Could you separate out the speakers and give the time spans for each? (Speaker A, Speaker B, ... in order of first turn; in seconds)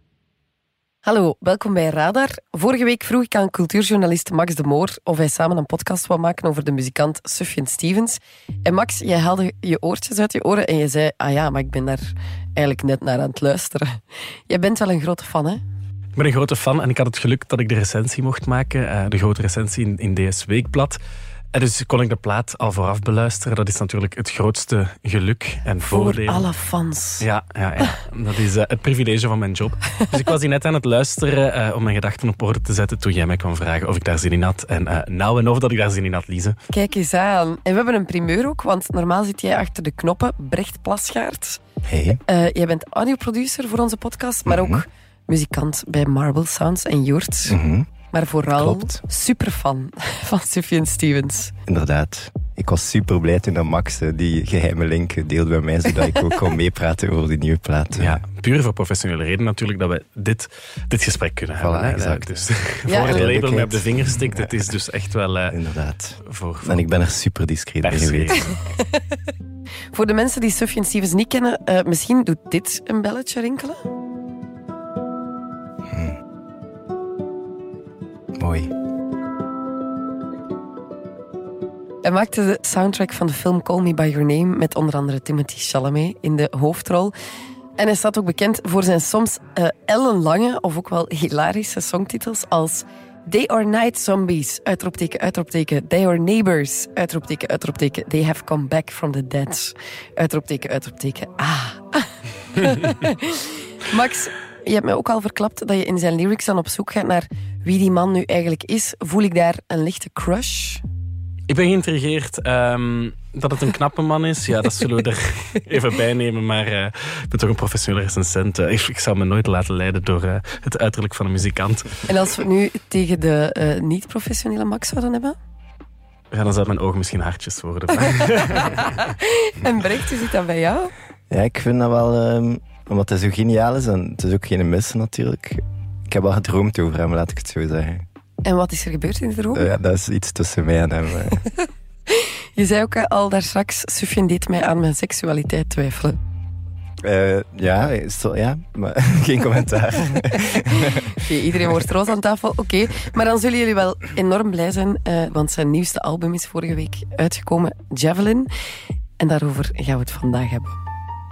Speaker A: 1.1-15.6, 25.9-27.3, 36.7-41.6, 42.2-47.6, 48.1-51.5, 62.9-63.3, 68.6-69.0, 69.9-73.8, 82.0-87.1, 87.8-110.8, 122.1-125.4, 128.7-130.9, 138.4-139.7, 141.6-146.2, 150.5-158.5, 159.2-160.8
Speaker B: 16.2-21.0, 21.5-26.5, 27.2-36.6, 58.0-65.6, 66.2-66.9, 67.8-68.5, 111.5-122.0, 126.3-129.1
Speaker C: 41.9-42.2, 44.5-44.8, 47.5-47.9, 48.5-49.0, 51.7-58.2, 61.6-64.5, 65.5-68.4, 75.9-76.2, 78.4-78.7, 131.3-138.1, 139.5-141.4, 147.0-151.8